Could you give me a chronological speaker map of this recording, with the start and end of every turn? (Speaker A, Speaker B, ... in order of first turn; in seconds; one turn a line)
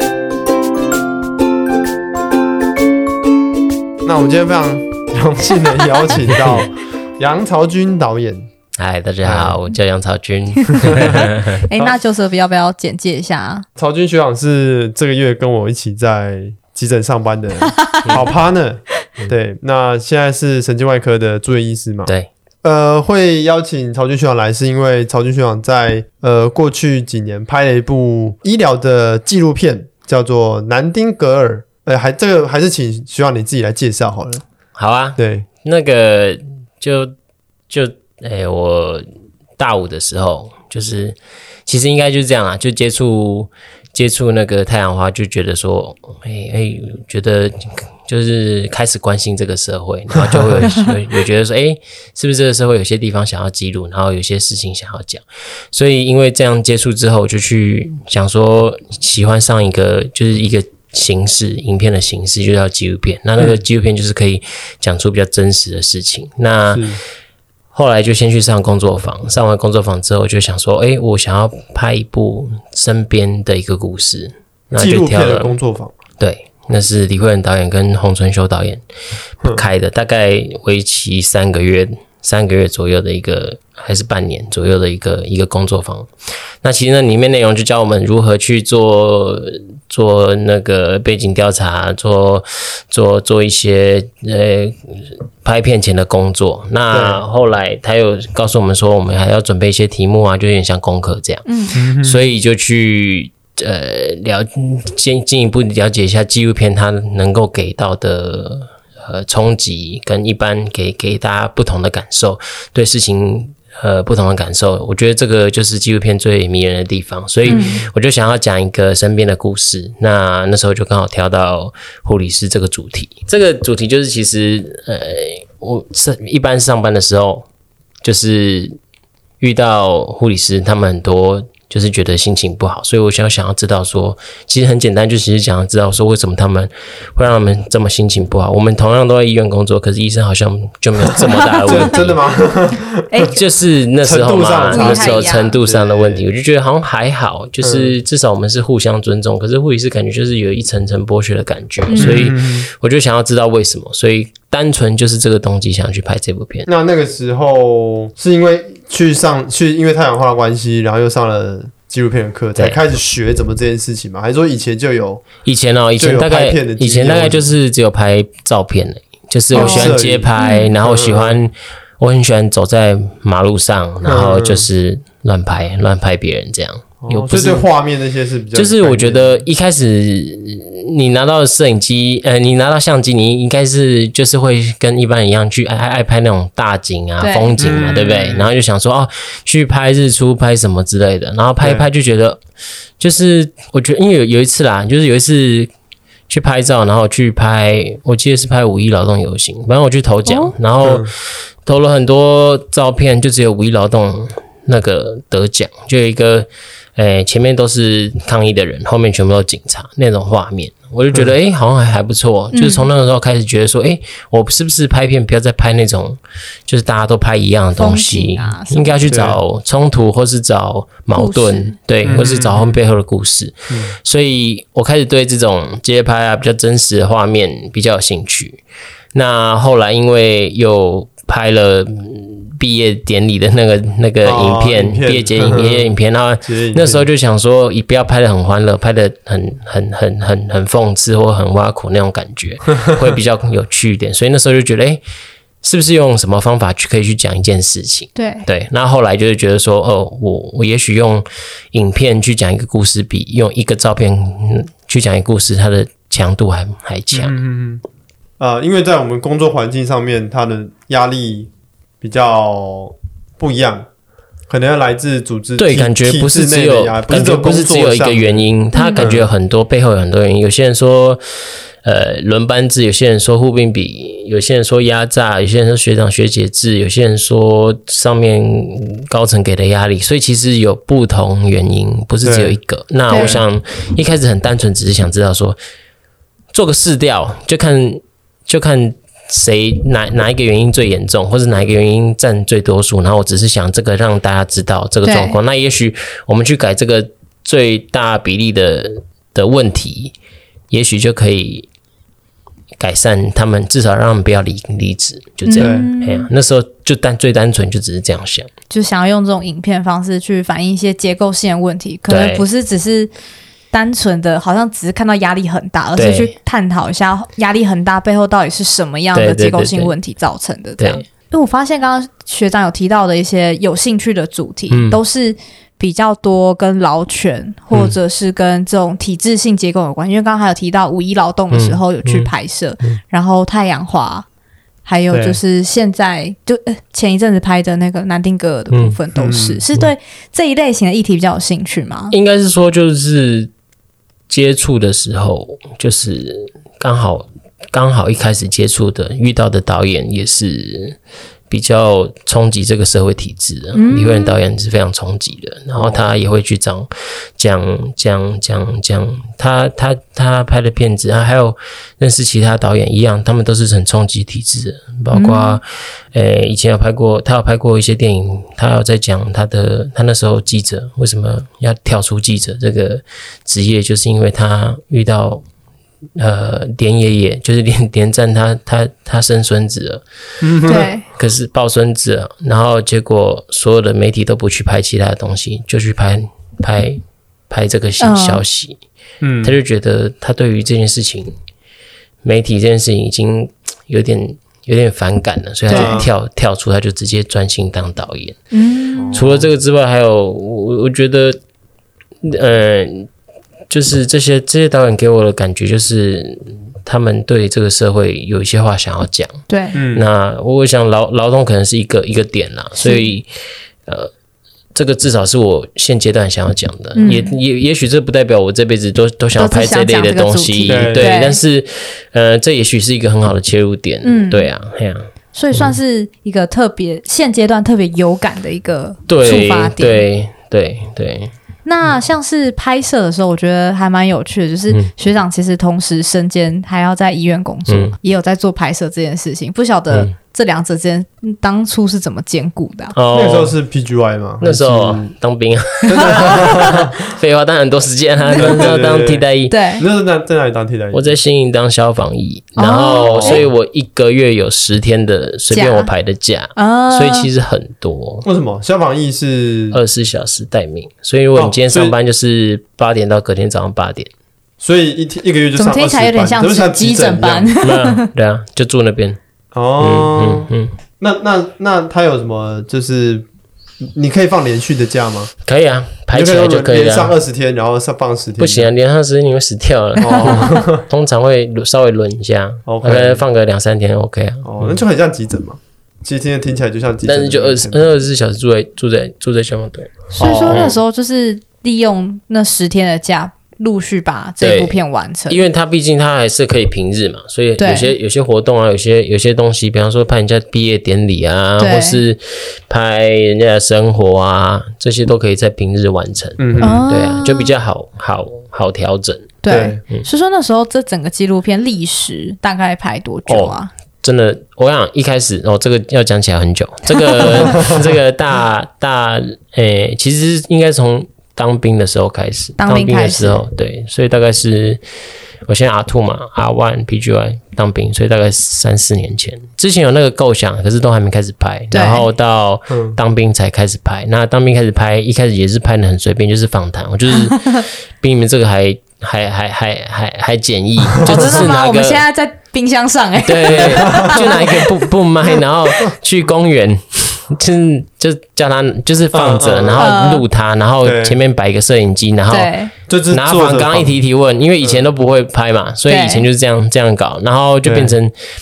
Speaker A: 4.0-8.5
Speaker B: 8.8-11.7
Speaker A: 9.2-9.6
Speaker A: 10.7-11.2
Speaker C: 11.5-13.7
Speaker A: 13.8-22.1
Speaker C: 17.7-18.2
Speaker A: 22.6-34.4
Speaker B: 34.8-37.1
Speaker A: 35.2-35.5
Speaker B: 37.7-39.0
Speaker B: 39.6-66.9
Speaker A: 50.1-50.6
Speaker C: 50.6-50.9
Speaker A: 66.7-67.0
Speaker B: 67.7-75.5
Speaker A: 74.8-75.9
Speaker B: 76.2-78.8
Speaker B: 79.5-86.1
Speaker B: 86.6-127.5
Speaker A: 96.9-97.2
Speaker C: 101.5-101.8
Speaker A: 101.7-102.2
Speaker A: 117.4-117.8
Speaker C: 117.5-117.8
Speaker B: 128.0-128.8
Speaker B: 129.4-142.2
Speaker A: 141.1-143.3
Speaker C: 141.2-141.9
Speaker C: 143.1-143.4
Speaker B: 143.3-156.7
Speaker A: 144.0-146.2
Speaker C: 144.7-145.6
Speaker A: 147.6-147.9
Speaker C: 151.9-152.3
Speaker A: 151.9-152.7
Speaker A: 156.7-165.2
Speaker B: 162.6-162.8
Speaker B: 165.4-177.7
Speaker A: 166.0-167.5
Speaker A: 169.5-171.4
Speaker C: 169.5-170.7
Speaker A: 174.0-174.7
Speaker A: 177.0-179.4
Speaker B: 178.6-192.4
Speaker C: 187.2-187.6
Speaker A: 187.6-188.5
Speaker A: 191.6-191.9
Speaker B: 193.0-195.7
Speaker B: 196.3-228.6
Speaker C: 200.2-200.5
Speaker A: 200.8-201.1
Speaker C: 212.5-212.9
Speaker C: 217.8-219.1
Speaker A: 219.1-219.4
Speaker C: 221.2-221.8
Speaker A: 222.0-222.8
Speaker A: 223.7-224.0
Speaker B: 229.1-245.0
Speaker A: 234.2-235.9
Speaker A: 236.4-237.1
Speaker B: 245.6-257.4
Speaker C: 248.2-248.5
Speaker A: 257.1-257.8
Speaker A: 258.4-261.5
Speaker A: 262.0-263.9
Speaker A: 264.5-269.3
Speaker B: 265.6-271.2
Speaker C: 268.7-269.1
Speaker B: 271.8-285.6
Speaker A: 282.2-282.6
Speaker A: 283.1-283.4
Speaker B: 286.5-300.1
Speaker C: 295.0-295.4
Speaker B: 300.7-301.7
Speaker B: 302.8-308.5
Speaker C: 305.4-306.3
Speaker A: 305.6-305.9
Speaker C: 308.7-313.1
Speaker B: 312.1-312.4
Speaker C: 313.7-334.2
Speaker B: 315.9-316.3
Speaker B: 319.1-319.9
Speaker B: 320.8-321.0
Speaker B: 324.7-325.0
Speaker B: 331.5-332.3
Speaker C: 334.9-342.1
Speaker A: 335.1-335.4
Speaker B: 338.7-339.0
Speaker A: 339.2-339.6
Speaker B: 342.1-343.5
Speaker B: 344.3-351.0
Speaker B: 351.5-375.4
Speaker C: 353.7-354.4
Speaker A: 355.8-356.0
Speaker C: 365.1-365.6
Speaker B: 376.2-380.0
Speaker A: 380.4-380.9
Speaker C: 380.7-381.1
Speaker B: 381.1-388.8
Speaker C: 388.0-388.4
Speaker A: 389.2-389.6
Speaker B: 389.4-391.4
Speaker B: 392.2-398.4
Speaker C: 395.7-396.0
Speaker A: 395.7-396.1
Speaker C: 398.5-399.2
Speaker A: 398.9-399.5
Speaker B: 399.1-401.4
Speaker B: 402.2-403.1
Speaker B: 403.7-413.3
Speaker C: 409.5-409.8
Speaker A: 409.7-410.1
Speaker C: 412.8-413.1
Speaker B: 413.9-414.1
Speaker B: 414.7-425.8
Speaker C: 416.9-417.4
Speaker C: 419.4-421.4
Speaker A: 420.6-421.1
Speaker C: 424.0-424.5
Speaker C: 425.4-430.0
Speaker B: 429.1-431.3
Speaker C: 431.6-442.9
Speaker B: 437.7-437.9
Speaker B: 442.9-443.6
Speaker A: 443.1-445.1
Speaker B: 444.4-449.6
Speaker A: 445.9-446.9
Speaker C: 446.0-446.6
Speaker C: 448.2-448.7
Speaker A: 448.4-451.1
Speaker C: 449.5-449.9
Speaker B: 450.9-458.2
Speaker C: 452.6-453.4
Speaker A: 453.1-453.4
Speaker C: 455.5-455.9
Speaker C: 456.6-457.3
Speaker A: 458.2-459.8
Speaker B: 459.7-464.1
Speaker A: 461.4-461.9
Speaker A: 464.6-467.5
Speaker C: 465.6-468.1
Speaker B: 467.6-469.2
Speaker A: 469.5-473.3
Speaker B: 469.8-470.7
Speaker A: 473.9-475.3
Speaker B: 475.4-477.1
Speaker A: 476.1-478.7
Speaker B: 478.4-484.8
Speaker A: 480.0-480.9
Speaker C: 480.1-480.5
Speaker A: 482.7-483.2
Speaker A: 484.4-487.9
Speaker B: 487.0-490.8
Speaker C: 490.1-495.4
Speaker A: 490.2-490.7
Speaker B: 494.4-509.4
Speaker C: 497.6-497.9
Speaker C: 501.6-502.0
Speaker A: 506.4-506.9
Speaker C: 506.6-507.5
Speaker C: 509.4-513.7
Speaker A: 509.5-509.8
Speaker B: 513.3-524.8
Speaker C: 517.2-517.4
Speaker C: 522.6-523.4
Speaker B: 525.5-542.0
Speaker C: 531.7-532.1
Speaker A: 532.7-533.0
Speaker C: 537.2-537.6
Speaker A: 540.9-541.3
Speaker C: 541.0-544.9
Speaker B: 543.2-552.5
Speaker A: 543.5-544.2
Speaker A: 549.1-549.9
Speaker C: 549.8-550.2
Speaker A: 550.8-551.2
Speaker C: 552.3-552.7
Speaker A: 552.9-554.0
Speaker B: 553.1-558.1
Speaker A: 554.6-554.9
Speaker C: 555.9-556.3
Speaker A: 557.6-558.0